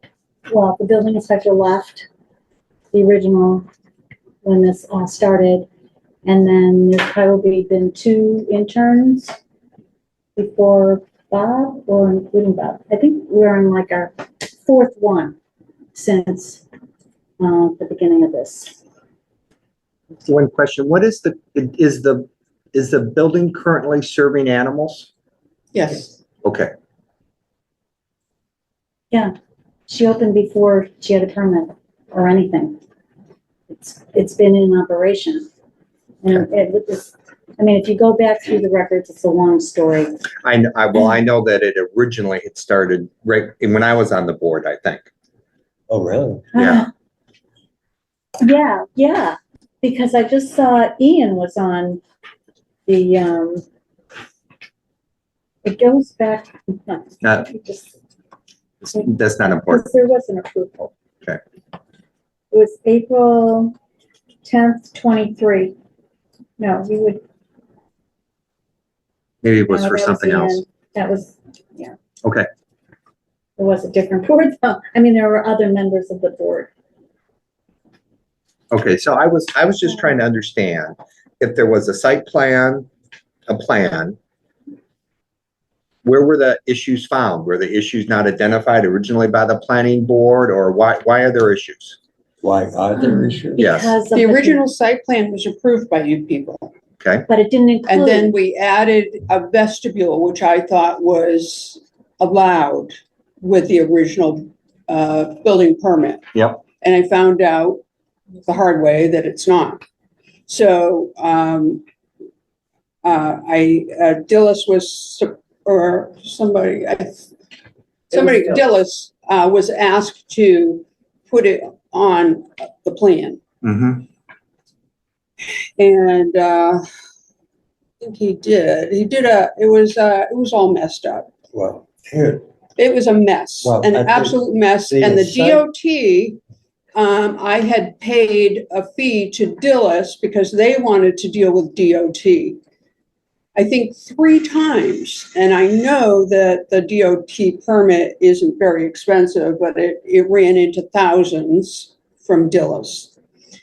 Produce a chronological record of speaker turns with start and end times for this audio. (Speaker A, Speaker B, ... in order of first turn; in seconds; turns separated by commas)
Speaker A: 0.5-2.1, Speaker A: 2.9-3.6, Speaker A: 4.4-5.7, Speaker A: 6.2-9.3, Speaker A: 10.3-15.4, Speaker A: 15.9-16.6, Speaker A: 17.4-18.8, Speaker B: 20.2-25.1, Speaker C: 25.7-26.1, Speaker B: 26.4-26.7, Speaker A: 29.9-32.8, Speaker A: 33.7-35.5, Speaker A: 36.2-40.2, Speaker B: 40.4-45.1, Speaker D: 45.9-46.5, Speaker B: 46.5-46.9, Speaker A: 46.5-46.9, Speaker A: 48.4-52.0, Speaker A: 52.9-53.6, Speaker A: 55.6-57.9, Speaker B: 57.2-57.5, Speaker B: 58.8-59.9, Speaker A: 59.6-60.9, Speaker A: 62.5-63.7, Speaker A: 64.4-65.7, Speaker A: 66.6-67.2, Speaker B: 69.4-70.6, Speaker A: 69.7-71.9, Speaker A: 73.6-76.7, Speaker B: 78.7-82.9, Speaker B: 83.5-84.2, Speaker B: 86.0-92.0, Speaker D: 92.4-93.6, Speaker A: 93.5-94.6, Speaker B: 93.6-94.0, Speaker C: 94.1-96.7, Speaker B: 97.0-97.3, Speaker A: 97.3-98.3, Speaker C: 97.9-106.2, Speaker B: 106.3-106.6, Speaker C: 106.8-107.8, Speaker C: 108.4-109.8, Speaker C: 110.5-111.8, Speaker C: 113.0-117.2, Speaker C: 118.1-123.4, Speaker B: 123.6-124.0, Speaker C: 125.8-126.8, Speaker C: 128.0-131.3, Speaker D: 131.5-132.4, Speaker C: 132.8-136.4, Speaker D: 133.6-135.7, Speaker C: 136.9-142.6, Speaker C: 143.5-153.1